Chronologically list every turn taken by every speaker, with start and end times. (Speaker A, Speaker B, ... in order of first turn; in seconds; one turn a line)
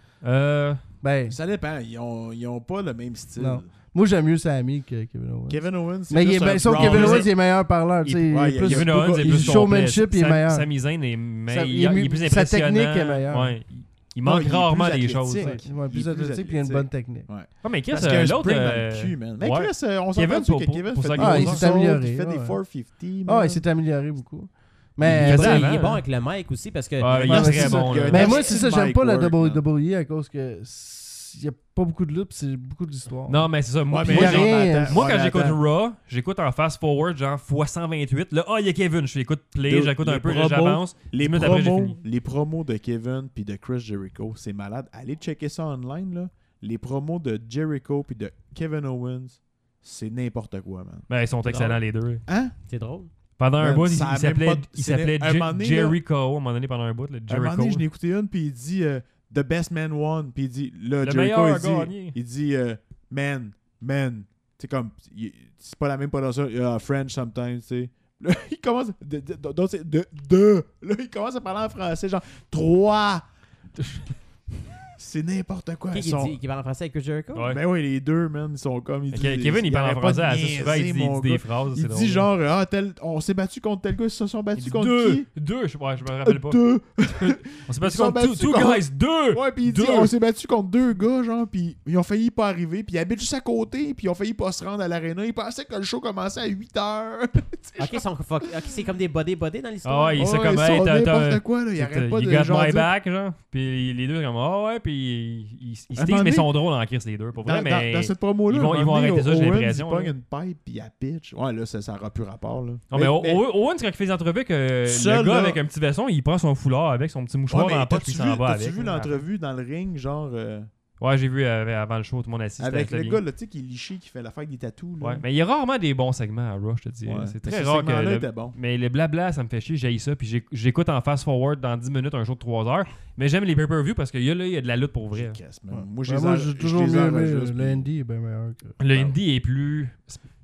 Speaker A: 0.2-0.8
Speaker B: 1.0-1.4
Speaker C: 1.3-3.7
Speaker B: 3.4-10.7
Speaker C: 5.5-7.4
Speaker A: 6.7-7.4
Speaker A: 8.0-15.6
Speaker C: 8.3-9.7
Speaker B: 11.5-13.6
Speaker C: 14.2-23.6
Speaker B: 15.4-17.3
Speaker A: 17.6-21.7
Speaker B: 21.2-22.6
Speaker B: 23.2-25.7
Speaker A: 25.1-26.0
Speaker D: 25.2-28.6
Speaker A: 27.0-28.4
Speaker C: 27.1-29.6
Speaker B: 27.3-33.5
Speaker A: 33.3-42.0
Speaker C: 33.9-35.6
Speaker B: 34.1-35.0
Speaker C: 39.6-51.1
Speaker A: 51.1-52.2
Speaker D: 51.5-51.8
Speaker C: 52.3-52.5
Speaker D: 52.7-53.1
Speaker A: 53.4-57.8
Speaker C: 53.6-56.0
Speaker C: 57.3-73.3
Speaker A: 61.0-62.2
Speaker A: 73.8-74.1
Speaker C: 74.9-76.4
Speaker D: 75.9-77.5
Speaker A: 77.3-77.6
Speaker C: 77.4-85.3
Speaker A: 79.1-82.3
Speaker A: 84.6-90.1
Speaker C: 86.2-98.7
Speaker D: 97.8-100.3
Speaker A: 99.8-110.1
Speaker C: 100.2-102.9
Speaker C: 106.0-106.5
Speaker C: 107.4-113.4
Speaker A: 112.9-119.2
Speaker C: 114.8-115.6
Speaker C: 117.5-120.7
Speaker A: 121.0-123.2
Speaker C: 122.6-125.2
Speaker A: 125.0-135.4
Speaker C: 127.0-128.6
Speaker C: 135.1-137.9
Speaker B: 135.7-138.8
Speaker A: 138.8-140.2
Speaker C: 138.9-139.2